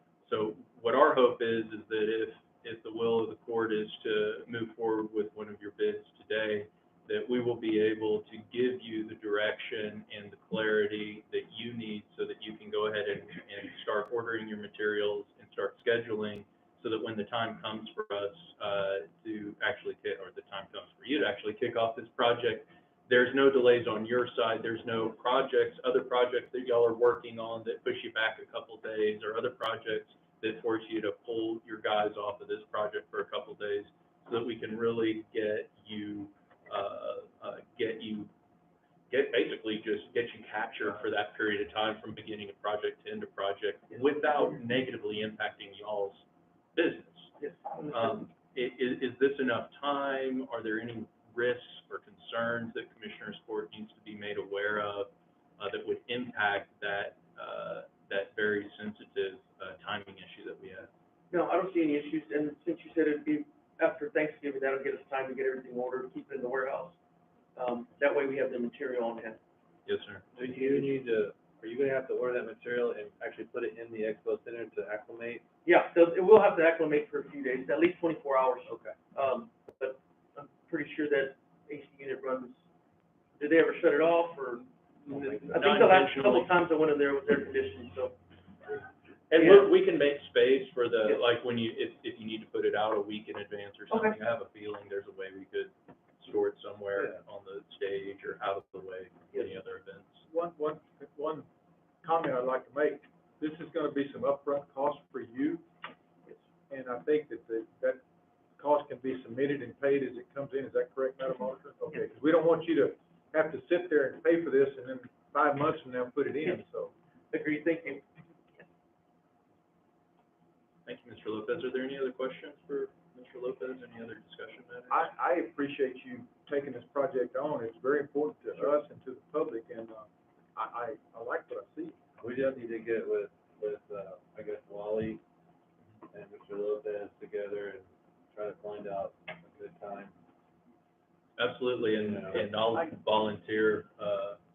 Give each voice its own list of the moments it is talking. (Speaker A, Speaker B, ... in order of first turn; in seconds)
Speaker A: 0.2-38.3, 39.1-47.3, 47.9-60.9, 69.9-70.3, 85.6-86.5, 89.3-100.2, 120.8-125.0, 141.4-144.4
Speaker B: 44.0-44.4, 47.4-48.2, 61.3-67.0, 67.5-69.4, 70.4-70.9, 75.7-82.6, 83.4-88.8, 89.3-89.7, 93.9-94.2, 117.3-118.7
Speaker C: 70.3-75.5, 78.7-79.0, 85.1-85.5, 132.2-135.2, 136.1-140.1, 142.0-142.5
Speaker D: 100.3-101.5, 102.0-105.6, 106.7-108.0, 108.6-116.9, 124.9-132.0